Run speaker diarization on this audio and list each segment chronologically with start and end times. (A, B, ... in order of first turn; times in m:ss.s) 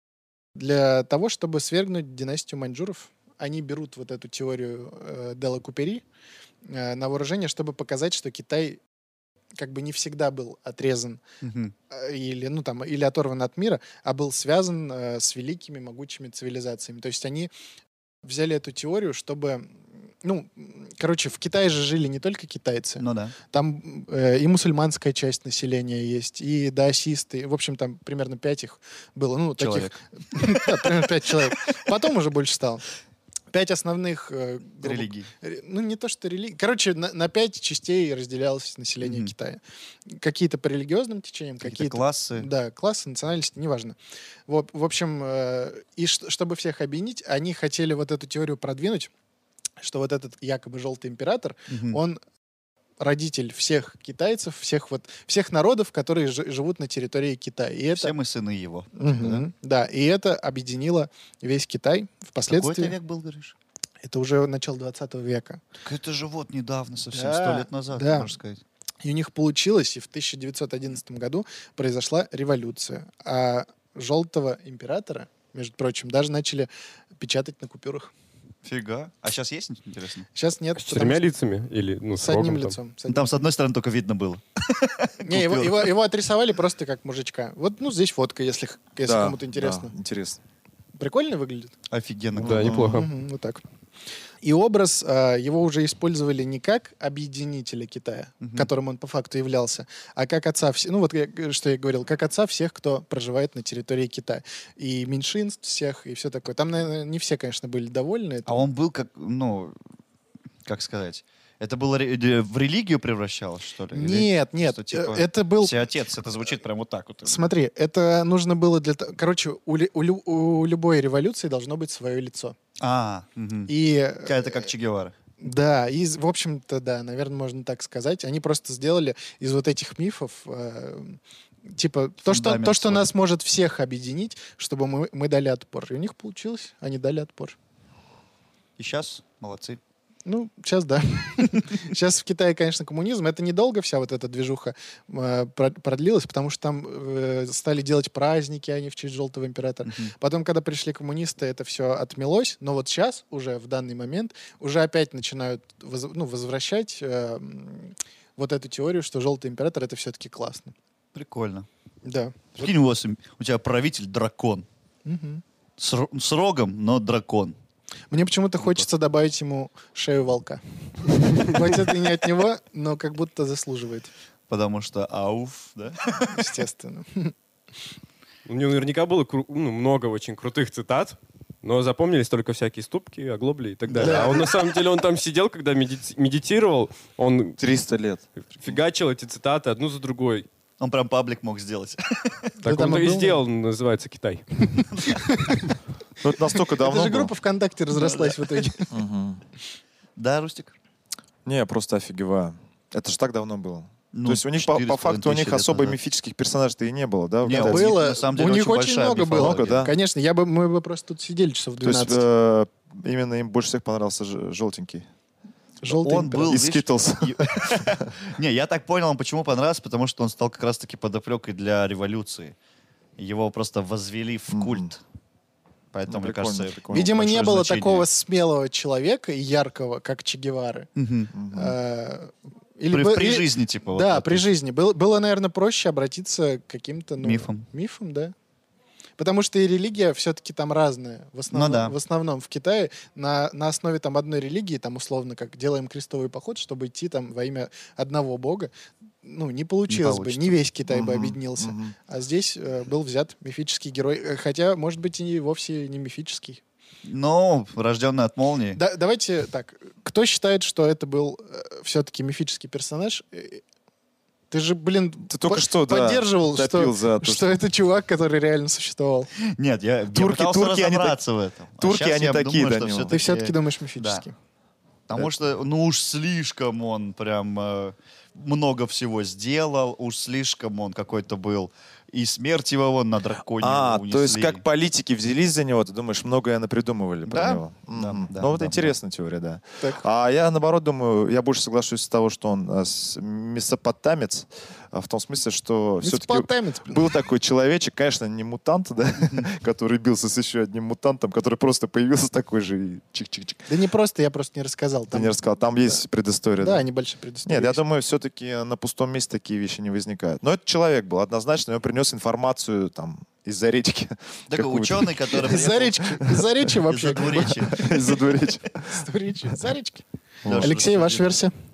0:00.6-0:06.0 A
0:06.6-0:08.8 A
0:09.5-0:11.2 A
0:11.4-0:11.7 B
0:11.9-0:17.5 A
0:18.2-0:32.8 A
0:23.0-0:23.3 B
0:29.6-0:30.7 B
0:33.5-0:44.0 A
0:34.8-0:35.3 B
0:39.0-0:39.3 B
0:41.6-0:42.5 B
0:44.5-0:49.1 A
0:49.8-0:52.2 A
0:51.7-0:52.0 B
0:53.0-0:58.1 A
0:57.9-0:59.4 B
0:59.0-1:02.9 A
1:02.5-1:03.5 B
1:04.0-1:05.6 A
1:05.8-1:08.6 B
1:07.1-1:08.3 A
1:09.0-1:18.1 A
1:18.6-1:20.3 B
1:20.3-1:21.2 A
1:20.8-1:22.8 C
1:22.2-1:23.3 A
1:23.1-1:25.9 B
1:25.2-1:29.9 A
1:29.0-1:30.4 D
1:31.0-1:31.7 A
1:31.9-1:32.9 B
1:32.4-1:33.0 D
1:32.4-1:33.1 C
1:32.9-1:33.6 A
1:34.4-1:48.6 A
1:38.4-1:38.7 B
1:48.5-1:49.8 B
1:50.6-1:57.4 B
1:53.9-1:55.8 A
1:57.2-2:02.5 A
2:02.8-2:03.7 B
2:03.7-2:04.7 A
2:04.2-2:05.1 B
2:05.4-2:17.6 A
2:12.2-2:13.1 B
2:18.8-2:19.8 B
2:20.2-2:40.7 A
2:29.8-2:30.1 B
2:41.1-2:41.7 B
2:42.0-2:42.7 A
2:42.6-2:44.6 B
2:45.0-2:45.4 A
2:45.8-2:47.6 B
2:48.1-2:54.1 A
2:54.5-2:56.5 B
2:56.3-2:57.3 A
2:58.4-3:07.6 C
3:03.9-3:04.4 B
3:03.9-3:04.5 A
3:07.6-3:08.2 D
3:08.4-3:10.4 C
3:10.8-3:12.5 B
3:12.6-3:13.4 A
3:12.6-3:14.6 C
3:14.8-3:15.7 A
3:16.2-3:17.3 D
3:16.5-3:18.9 A
3:17.9-3:18.7 B
3:18.9-3:19.4 D
3:20.2-3:20.7 B
3:21.4-3:27.9 D
3:24.1-3:26.0 B
3:27.4-3:29.9 B
3:27.6-3:32.2 A
3:29.3-3:29.9 D
3:31.8-3:35.1 D
3:35.8-3:36.6 A
3:35.8-3:42.5 B
3:36.3-3:38.1 D
3:43.2-3:45.0 B
3:44.5-3:44.9 D
3:45.9-3:48.0 B
3:46.1-3:47.1 D
3:46.9-3:50.9 A
3:51.0-3:51.3 B
3:51.3-3:51.7 D
3:51.5-3:58.3 A
3:52.9-3:54.4 B
3:57.2-3:57.6 B
3:59.2-4:08.7 A
4:01.5-4:01.9 B
4:09.2-4:16.6 A
4:09.9-4:10.6 B
4:10.9-4:11.9 D
4:17.0-4:18.8 B
4:18.7-4:23.6 A
4:24.5-4:29.3 A
4:25.3-4:27.6 D
4:29.4-4:34.2 B
4:30.1-4:31.2 D
4:31.8-4:33.3 D
4:33.1-4:34.3 A
4:35.1-4:44.6 B
4:43.6-5:03.7 D
4:47.3-4:48.9 B
4:56.0-4:57.0 A
5:03.7-5:06.0 A
5:05.1-5:06.8 D
5:06.6-5:07.8 A
5:07.4-5:16.4 D
5:14.5-5:16.0 B
5:15.4-5:18.1 A
5:16.8-5:18.2 B
5:17.5-5:19.0 D
5:18.9-5:20.0 A
5:20.4-5:20.7 D
5:20.4-5:21.2 B
5:20.6-5:21.5 A